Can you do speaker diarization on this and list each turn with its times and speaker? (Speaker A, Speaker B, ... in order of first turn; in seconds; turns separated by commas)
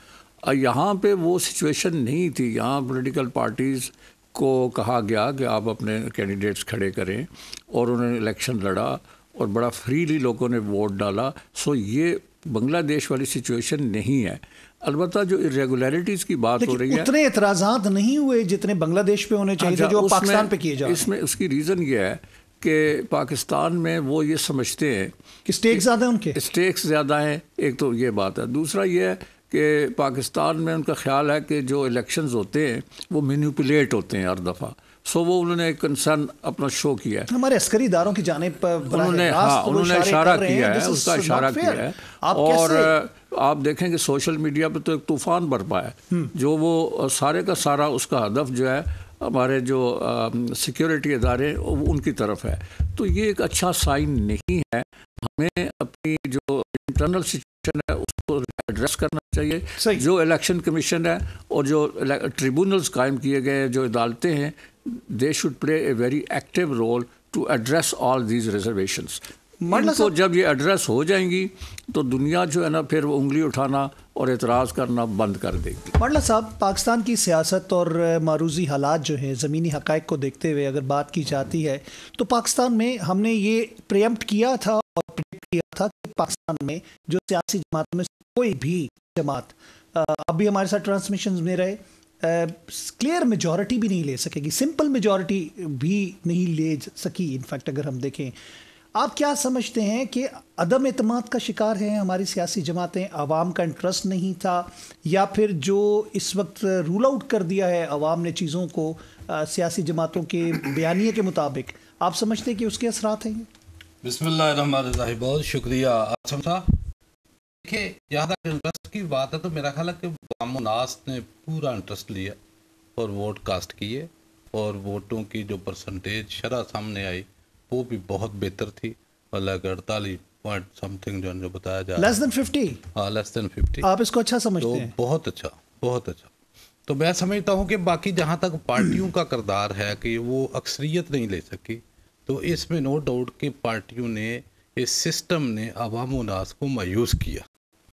Speaker A: 0.4-17.1, Speaker B: 16.6-21.1, Speaker A: 19.6-25.1, Speaker B: 25.4-26.4, Speaker A: 25.7-37.3, Speaker B: 37.3-42.9, Speaker A: 38.9-76.0, Speaker B: 69.6-70.1, Speaker B: 76.0-98.3, Speaker B: 99.0-113.5, Speaker C: 114.0-116.8, Speaker C: 117.6-122.3, Speaker C: 123.0-132.1, Speaker B: 132.0-132.8, Speaker C: 132.9-133.9, Speaker B: 133.8-134.9, Speaker C: 134.6-136.3, Speaker C: 136.9-147.4